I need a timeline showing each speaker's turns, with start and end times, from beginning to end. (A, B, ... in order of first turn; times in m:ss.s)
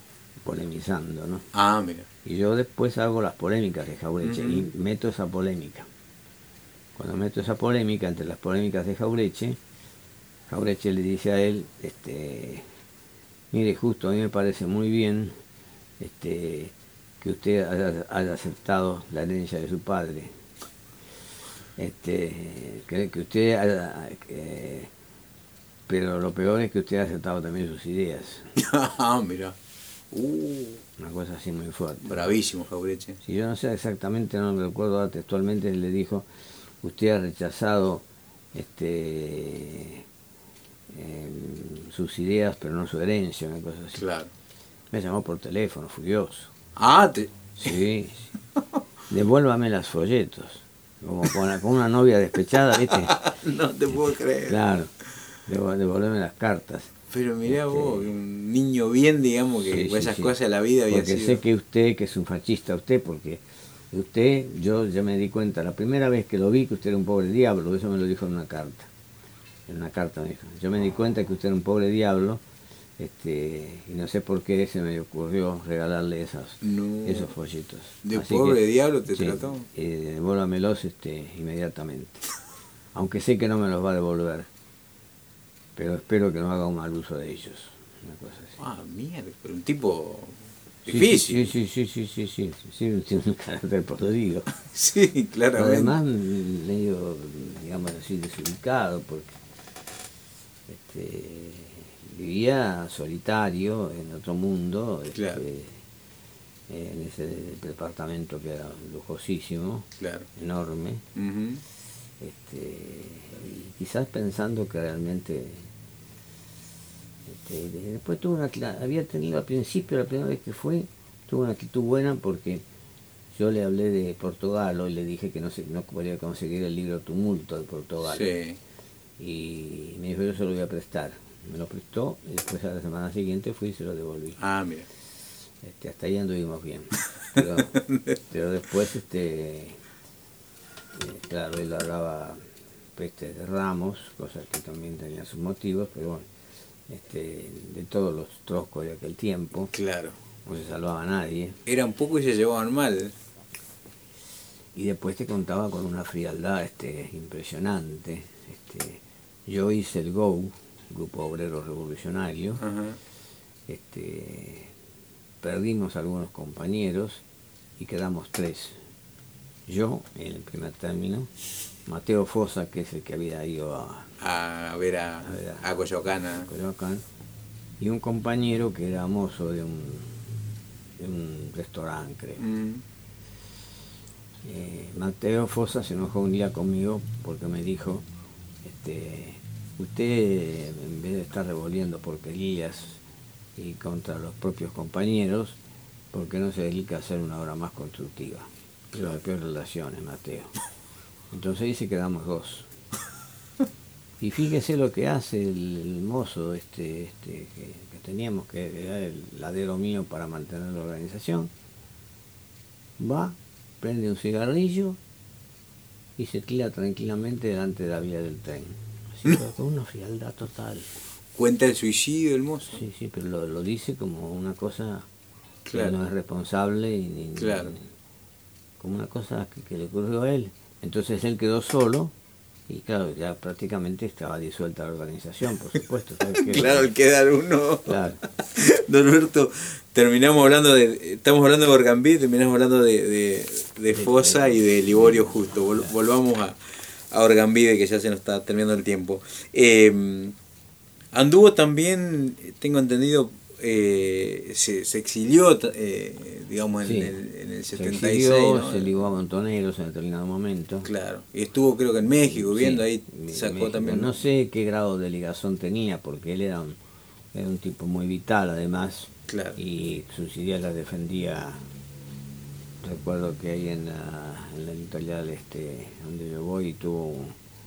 0:00.4-0:01.5 A
0:01.5-0:02.1 B
0:02.2-0:05.9 A
0:04.2-0:04.6 B
0:07.0-0:09.6 A
0:10.5-0:12.7 A
0:13.5-0:15.4 A
0:16.0-0:20.3 A
0:21.8-0:24.9 A
0:25.9-0:28.5 A
0:28.6-0:29.6 B
0:30.1-0:30.8 B
0:31.0-0:32.4 A
0:32.0-0:33.2 B
0:33.2-0:36.3 A
0:36.8-0:40.0 A
0:40.9-0:44.0 A
0:44.0-0:44.3 B
0:44.9-0:46.5 A
0:46.8-0:47.7 B
0:47.6-0:48.3 A
0:49.1-0:53.2 A
0:52.8-0:54.6 B
0:54.5-0:54.9 A
0:55.5-0:56.9 A
0:57.1-1:01.4 B
0:57.5-0:58.1 A
0:59.6-1:00.3 A
1:00.9-1:08.9 A
1:09.7-1:12.4 A
1:13.0-1:22.3 A
1:16.6-1:17.3 B
1:18.0-1:19.7 B
1:22.9-1:24.5 A
1:25.8-1:28.6 A
1:28.6-1:31.5 B
1:30.9-1:34.5 A
1:34.6-1:35.9 B
1:35.6-1:39.4 A
1:40.7-1:45.8 A
1:45.1-1:45.4 B
1:46.7-1:51.0 A
1:50.0-1:50.3 B
1:51.2-1:51.6 B
1:52.2-1:55.7 A
1:57.3-2:02.6 A
2:03.3-2:08.3 A
2:08.0-2:08.6 B
2:09.2-2:14.4 A
2:14.4-2:14.9 B
2:15.6-2:19.8 A
2:17.4-2:18.0 B
2:21.0-2:22.4 A
2:23.0-2:26.3 A
2:26.9-2:29.7 A
2:29.7-2:30.2 B
2:30.4-2:31.6 A
2:31.7-2:33.1 B
2:34.7-2:42.6 A
2:42.6-2:43.0 B
2:43.7-2:44.7 A
2:45.4-2:47.2 A
2:47.8-2:48.8 A
2:49.7-2:51.3 A
2:51.9-2:54.1 A
2:54.2-2:56.5 B
2:55.2-2:55.7 A
2:56.3-2:57.0 A
2:57.8-3:00.2 A
3:01.0-3:02.4 A
3:02.4-3:02.8 B
3:04.4-3:08.0 A
3:08.6-3:13.0 A
3:13.6-3:15.6 A
3:16.1-3:20.5 A
3:21.3-3:22.7 A
3:24.2-3:31.5 A
3:33.0-3:35.0 A
3:36.2-3:40.9 A
3:41.4-3:42.8 B
3:42.7-3:45.1 A
3:45.7-3:46.0 B
3:45.7-3:47.9 A
3:47.4-3:47.7 B
3:48.8-3:52.1 A
3:52.7-3:56.9 A
3:56.3-4:06.6 B
3:57.9-3:58.2 A
4:03.9-4:05.6 A
4:07.1-4:10.4 B
4:11.1-4:18.9 B
4:16.8-4:17.2 A
4:17.7-4:20.9 A
4:20.8-4:24.2 B
4:22.3-4:26.8 A
4:27.3-4:31.6 A
4:29.3-4:29.6 B
4:32.8-4:37.4 A